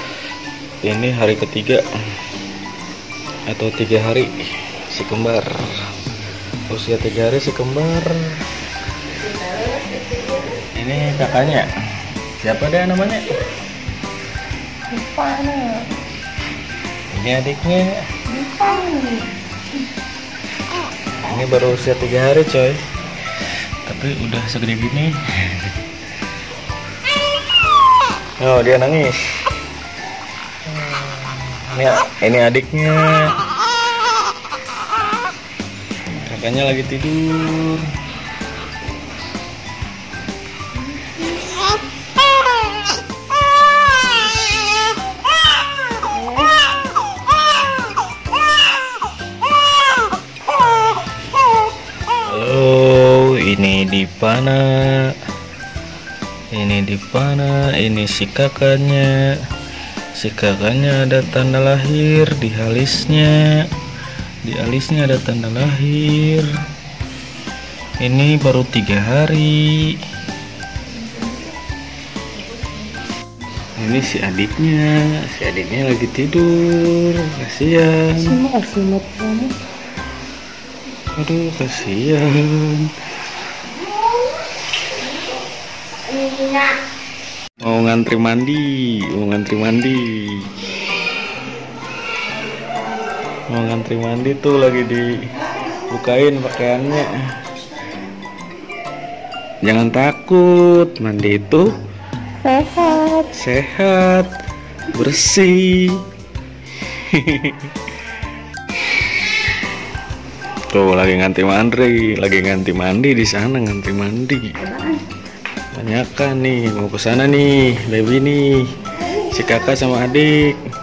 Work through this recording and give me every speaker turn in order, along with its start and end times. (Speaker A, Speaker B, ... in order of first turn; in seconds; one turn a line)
Speaker A: 0.8-1.8
Speaker A: 3.5-4.3
Speaker A: 4.9-5.8
Speaker A: 6.7-8.2
Speaker A: 10.8-11.7
Speaker A: 12.3-13.4
Speaker B: 14.9-15.9
Speaker A: 17.1-18.0
Speaker B: 18.3-19.3
Speaker A: 21.2-22.8
Speaker A: 23.9-25.7
Speaker A: 28.4-29.2
Speaker A: 30.7-33.4
Speaker A: 36.3-37.9
Speaker A: 52.3-55.1
Speaker A: 56.5-59.2
Speaker A: 60.2-63.7
Speaker A: 64.4-66.5
Speaker A: 68.0-70.0
Speaker A: 73.8-78.4
Speaker B: 78.2-79.6
Speaker A: 81.2-82.9
Speaker B: 86.2-86.6
Speaker A: 87.6-90.5
Speaker A: 93.5-95.1
Speaker A: 95.9-97.1
Speaker A: 99.6-101.8
Speaker B: 102.5-103.3
Speaker A: 103.1-104.4
Speaker A: 104.9-106.0
Speaker A: 106.8-107.7
Speaker A: 110.7-114.5
Speaker B: 114.7-115.0
Speaker A: 115.7-120.6